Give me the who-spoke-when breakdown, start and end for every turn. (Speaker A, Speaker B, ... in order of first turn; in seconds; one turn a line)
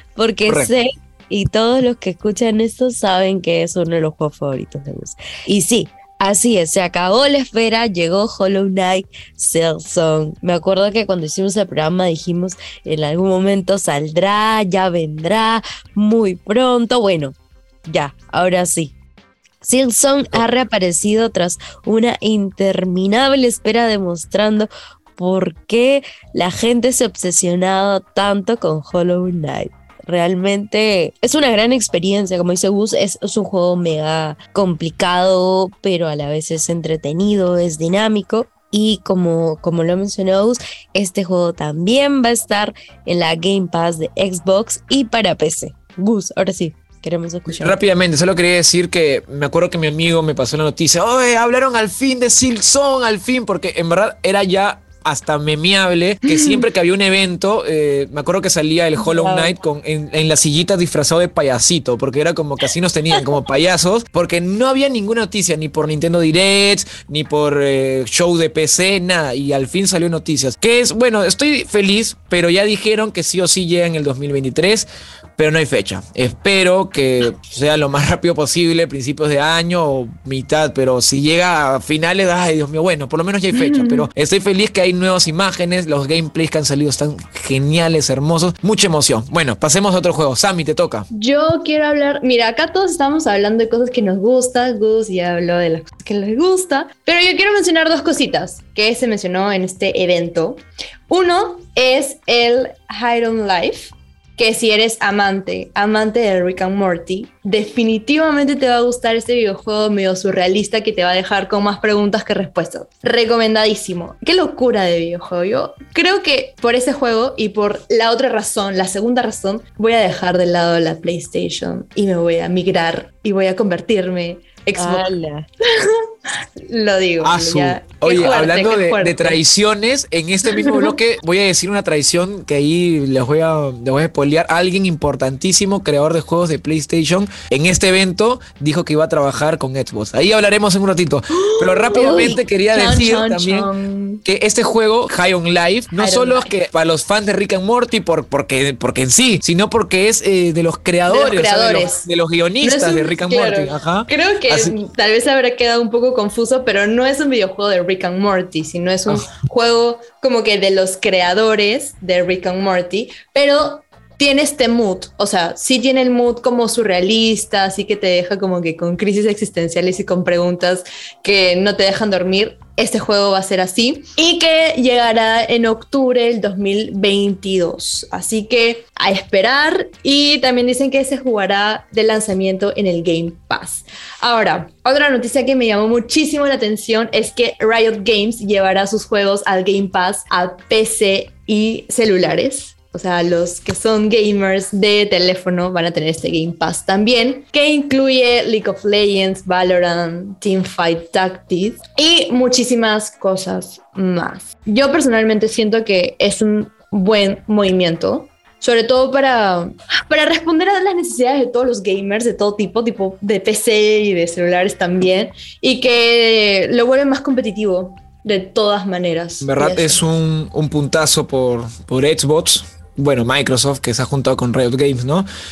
Speaker A: 0.1-17.3
Speaker A: 17.9-18.9
Speaker A: 19.6-47.8
Speaker B: 47.5-91.1
Speaker C: 56.3-56.6
Speaker A: 59.0-59.5
Speaker C: 83.5-84.0
Speaker C: 91.1-125.1
Speaker A: 124.8-125.4
Speaker C: 125.6-129.4
Speaker B: 127.2-143.7
Speaker C: 130.4-130.9
Speaker C: 141.5-144.2
Speaker B: 144.2-154.8
Speaker C: 146.0-146.5
Speaker C: 151.1-152.0
Speaker C: 152.6-220.0
Speaker B: 219.4-225.3